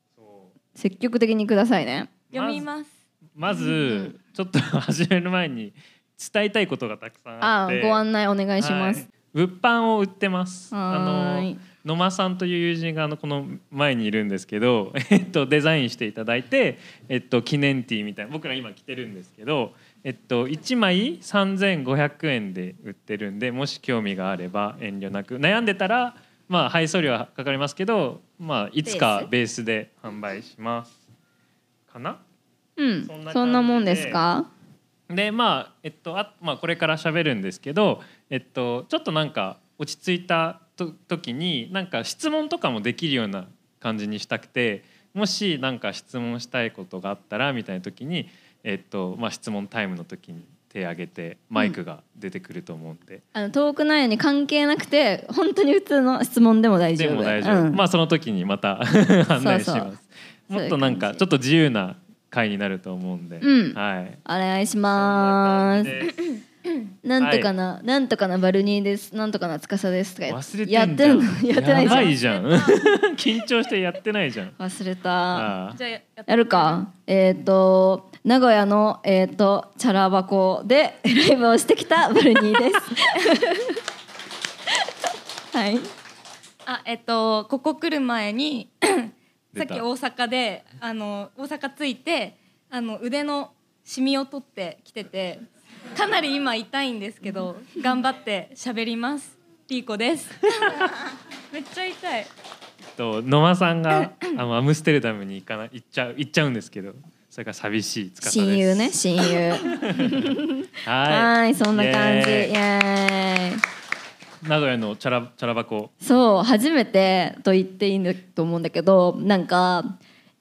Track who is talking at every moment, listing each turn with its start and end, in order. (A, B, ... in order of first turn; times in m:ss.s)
0:00.2-0:00.5 A
0:00.8-0:02.1 B
0:02.3-0:02.9 C
0:02.3-0:02.7 A
0:03.4-0:08.0 A
0:03.6-0:04.1 B
0:07.4-0:09.1 B
0:08.6-0:31.0 A
0:10.7-0:11.6 B
0:28.8-0:29.3 B
0:31.9-0:32.2 A
0:32.8-0:34.5 B
0:33.0-0:34.2 A
0:35.1-0:53.2 A
0:53.3-0:57.8 B
0:57.0-1:04.2 A
0:59.4-0:59.9 B
1:00.5-1:01.2 B
1:03.4-1:06.1 B
1:04.9-1:06.2 A
1:07.0-1:12.1 B
1:07.2-1:07.5 A
1:10.3-1:14.6 A
1:11.8-1:12.8 C
1:14.6-1:15.5 B
1:15.3-1:15.8 A
1:15.7-1:16.8 C
1:16.3-1:23.7 B
1:25.5-1:25.9 B
1:26.7-1:42.3 C
1:29.5-1:29.8 A
1:43.0-1:49.0 A
1:44.0-1:44.3 C
1:48.2-1:53.6 B
1:49.7-1:52.5 A
1:54.4-1:55.9 A
1:56.0-2:00.0 B